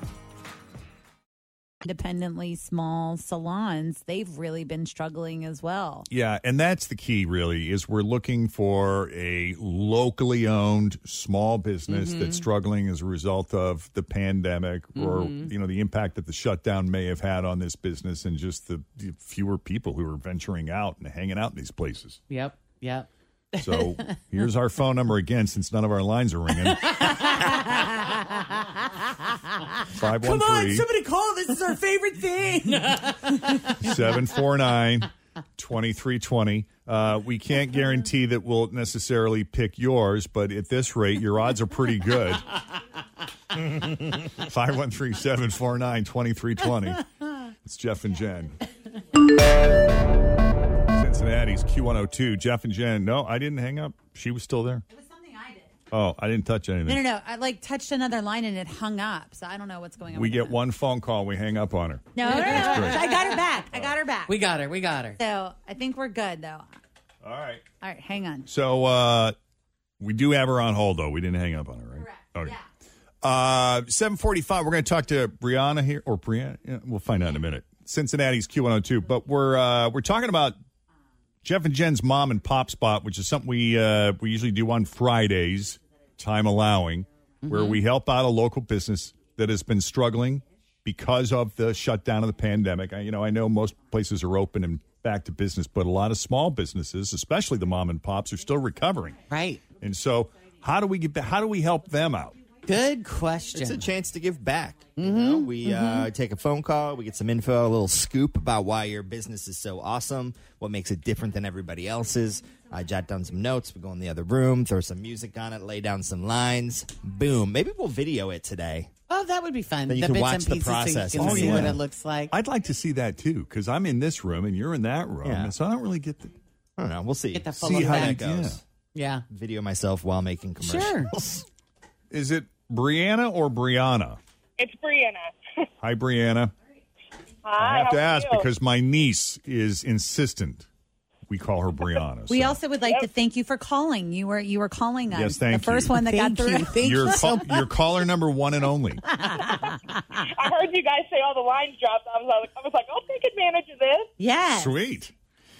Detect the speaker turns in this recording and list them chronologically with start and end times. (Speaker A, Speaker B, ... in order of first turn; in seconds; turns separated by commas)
Speaker A: 1.8-6.1, Speaker B: 6.1-22.2, Speaker C: 11.9-12.5, Speaker C: 14.9-15.5, Speaker C: 22.3-24.1, Speaker B: 23.6-27.0, Speaker C: 26.6-28.6, Speaker B: 29.9-30.9, Speaker C: 30.0-34.2, Speaker B: 33.8-42.4, Speaker B: 43.7-47.1, Speaker B: 47.6-48.6, Speaker B: 50.9-54.8, Speaker A: 54.9-55.7, Speaker B: 55.9-57.0, Speaker A: 56.8-60.6, Speaker B: 60.1-63.0, Speaker A: 62.1-64.4, Speaker C: 62.2-63.4, Speaker C: 64.2-65.2, Speaker A: 65.2-66.7, Speaker B: 67.2-67.7, Speaker A: 67.8-68.5, Speaker B: 68.5-69.3, Speaker B: 70.0-72.6, Speaker A: 72.1-72.6, Speaker B: 73.2-80.5, Speaker B: 81.4-99.2, Speaker C: 87.4-87.8, Speaker C: 99.3-99.6, Speaker B: 99.8-102.4, Speaker C: 102.6-103.8, Speaker D: 103.5-118.9, Speaker C: 105.0-106.1, Speaker C: 119.1-122.3, Speaker D: 119.9-121.8, Speaker B: 121.2-121.8, Speaker B: 122.3-126.3, Speaker D: 125.2-125.5, Speaker D: 126.8-128.6, Speaker C: 127.3-128.4, Speaker B: 127.6-128.6, Speaker C: 128.9-129.2, Speaker D: 129.3-131.4, Speaker C: 130.6-131.1, Speaker B: 132.1-134.2, Speaker E: 134.6-135.4, Speaker B: 135.8-136.5, Speaker E: 137.4-138.5, Speaker B: 137.6-140.7, Speaker B: 141.3-142.6, Speaker A: 142.2-147.3, Speaker B: 145.1-146.0, Speaker C: 146.0-147.7, Speaker B: 146.8-149.0, Speaker A: 149.2-150.0, Speaker E: 150.4-154.1, Speaker A: 154.2-154.8, Speaker B: 154.5-155.1